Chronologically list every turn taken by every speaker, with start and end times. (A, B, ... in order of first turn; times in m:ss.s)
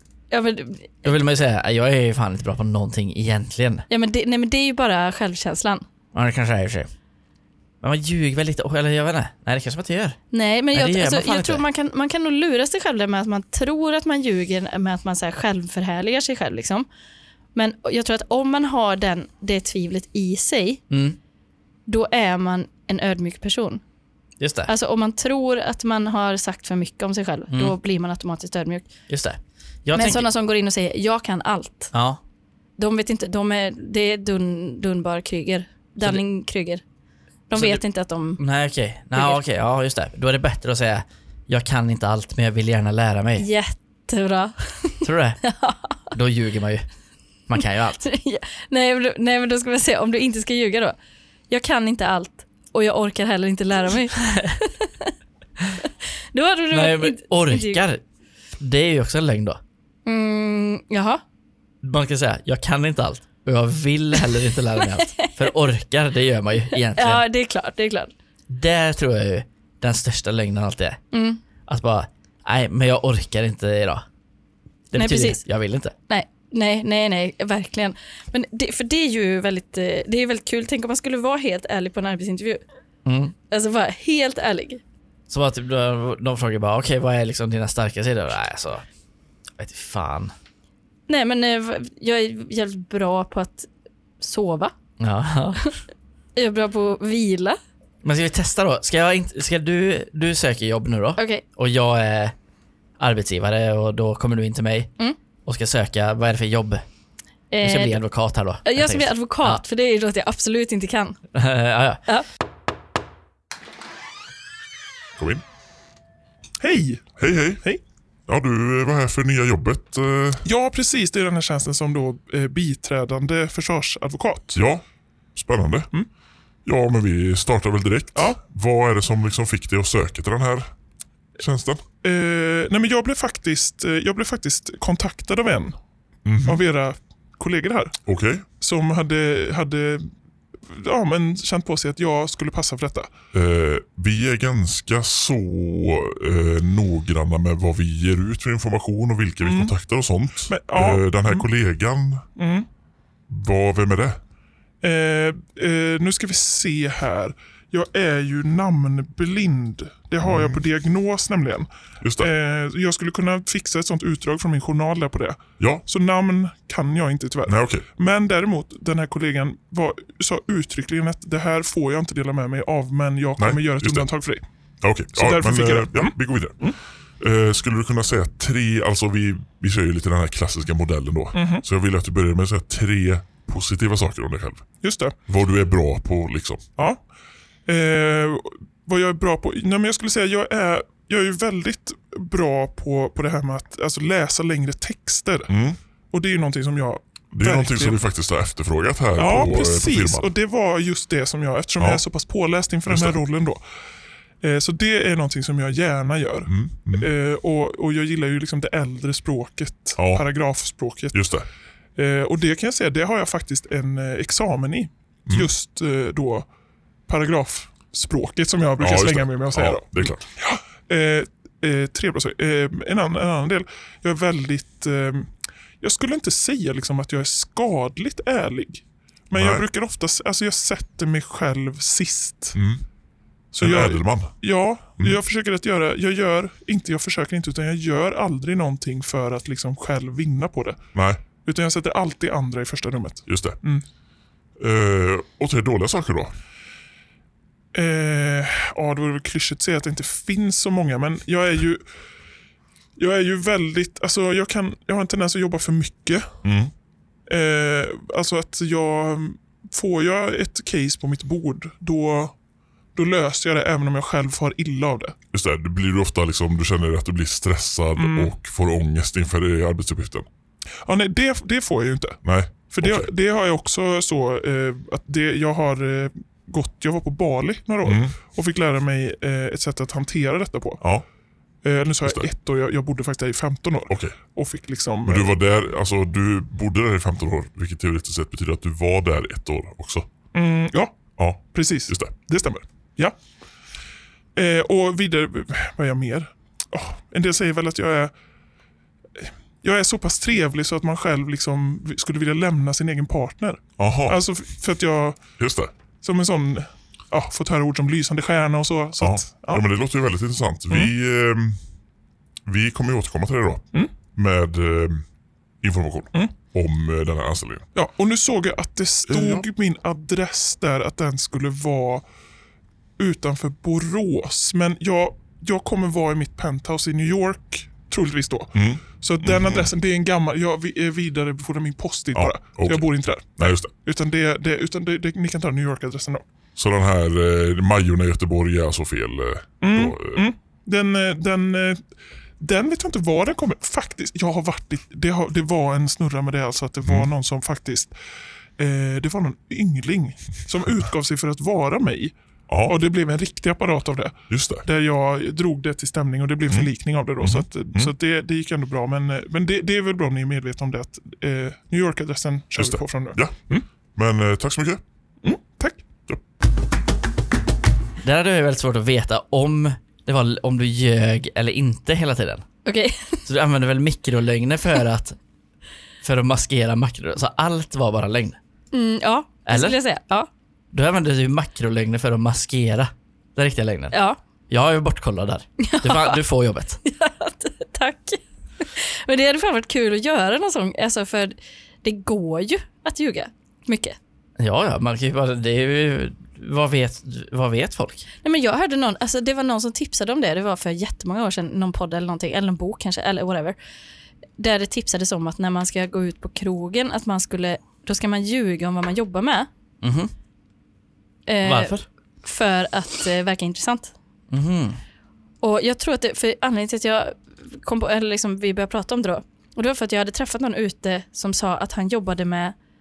0:00.3-0:01.2 A
0:01.0-0:03.9 B
0:03.9-0:05.8 A
0:06.1-0:06.9 B
0:07.8-0:10.2 B
0:10.3-0:16.9 A
0:10.7-0:11.6 B
0:17.6-0:20.8 A
0:20.9-0:21.2 B
0:21.9-0:23.8 A
0:24.4-0:24.7 B
0:24.7-0:28.9 A
0:29.1-0:30.3 B
0:29.9-0:31.9 A
0:31.9-0:32.2 B
0:32.8-0:36.8 A
0:37.5-0:38.4 A
0:37.5-0:37.8 B
0:38.4-0:43.5 B
0:39.2-0:39.4 A
0:43.4-0:45.9 A
0:45.0-0:45.4 B
0:46.1-0:46.9 B
0:47.5-0:48.0 B
0:48.0-0:51.0 A
0:51.5-0:55.1 A
0:54.1-0:54.6 B
0:55.8-0:57.8 A
0:56.7-0:58.0 B
0:58.6-0:59.6 B
1:00.1-1:01.2 A
1:01.8-1:07.2 B
1:04.8-1:05.5 A
1:06.9-1:08.1 A
1:08.5-1:11.0 B
1:11.1-1:11.4 A
1:11.7-1:14.0 B
1:14.9-1:15.9 B
1:15.0-1:15.4 A
1:16.1-1:22.6 A
1:23.0-1:23.3 B
1:23.5-1:24.8 A
1:25.3-1:28.8 B
1:29.6-1:30.3 B
1:31.1-1:33.7 A
1:34.2-1:34.7 A
1:35.0-1:35.6 B
1:36.4-1:37.6 A
1:38.0-1:42.3 B
1:41.2-1:41.4 A
1:43.0-1:44.9 B
1:45.4-1:46.8 B
1:47.5-1:48.0 A
1:47.6-1:49.6 B
1:48.6-1:51.2 A
1:51.3-1:52.0 B
1:55.2-1:55.4 C
1:56.6-1:57.8 D
1:57.2-1:57.6 C
1:58.3-2:00.4 C
2:00.4-2:04.6 D
2:04.6-2:04.8 C
2:05.4-2:05.9 C
2:06.6-2:10.7 C
2:11.4-2:11.8 C
2:12.0-2:15.8 D
2:16.3-2:16.6 C
2:16.4-2:18.0 D
2:18.1-2:18.4 C
2:18.6-2:20.1 D
2:20.7-2:23.1 D
2:23.3-2:32.2 C
2:29.4-2:29.7 D
2:30.5-2:31.5 D
2:32.4-2:32.7 D
2:33.3-2:34.2 C
2:34.8-2:54.4 D
2:40.2-2:40.6 C
2:42.0-2:42.3 C
2:47.5-2:47.8 C
2:53.4-2:54.1 C
2:54.8-2:56.6 C
2:55.1-2:56.8 D
2:57.2-3:04.6 C
3:01.3-3:01.6 D
3:04.8-3:05.2 D
3:05.3-3:06.6 C
3:07.7-3:15.5 D
3:15.5-3:15.8 C
3:16.1-3:18.0 D
3:17.3-3:20.3 C
3:19.2-3:23.6 D
3:22.9-3:23.2 C
3:24.4-3:31.3 D
3:26.5-3:27.1 C
3:30.0-3:30.2 C
3:31.1-3:31.5 C
3:32.0-3:36.5 D
3:37.1-3:52.6 D
3:38.8-3:40.2 C
3:49.4-3:49.6 C
3:52.6-3:52.8 C
3:53.5-4:00.8 D
3:53.6-3:54.3 C
4:01.4-4:03.8 D
4:03.3-4:03.6 C
4:04.6-4:06.4 C
4:07.7-4:11.8 D
4:13.0-4:16.3 D
4:16.4-4:16.7 C
4:17.3-4:22.4 D
4:23.0-4:25.2 D
4:25.3-4:30.3 C
4:28.0-4:28.3 D
4:30.8-4:40.8 D
4:32.2-4:33.1 C
4:37.8-4:38.1 C
4:41.6-4:45.3 D
4:43.9-4:44.2 C
4:45.1-4:50.1 C
4:50.3-4:53.2 D
4:51.2-4:52.1 C
4:54.4-4:58.1 D
4:59.2-5:05.3 D
5:03.8-5:04.2 C
5:05.4-5:05.7 C
5:06.0-5:09.6 D
5:09.0-5:11.6 C
5:12.5-5:15.0 C
5:15.6-5:17.6 C
5:17.8-5:22.0 D
5:19.1-5:19.4 C
5:23.0-5:36.2 D
5:28.6-5:29.7 C
5:32.2-5:33.7 C
5:36.6-5:40.2 C
5:39.6-5:41.8 D
5:42.4-5:47.9 D
5:46.8-5:47.1 C
5:48.6-5:52.1 D
5:52.5-5:52.7 C
5:52.6-6:03.7 D
5:54.3-5:54.6 C
5:57.2-5:57.9 C
6:02.6-6:04.8 C
6:05.2-6:05.8 D
6:08.0-6:12.4 B
6:12.6-6:13.2 A
6:13.3-6:15.2 B
6:16.0-6:18.4 B
6:18.7-6:20.3 A
6:19.5-6:19.8 B
6:20.7-6:24.0 B
6:23.9-6:24.2 A
6:24.5-6:26.8 B
6:25.6-6:26.2 A
6:26.8-6:34.0 A
6:34.4-6:38.1 B
6:38.2-6:43.6 A
6:44.4-6:49.5 A
6:49.8-6:50.1 B
6:51.3-6:53.9 A
6:51.4-6:51.9 B
6:54.3-6:54.8 B
6:55.4-7:02.6 A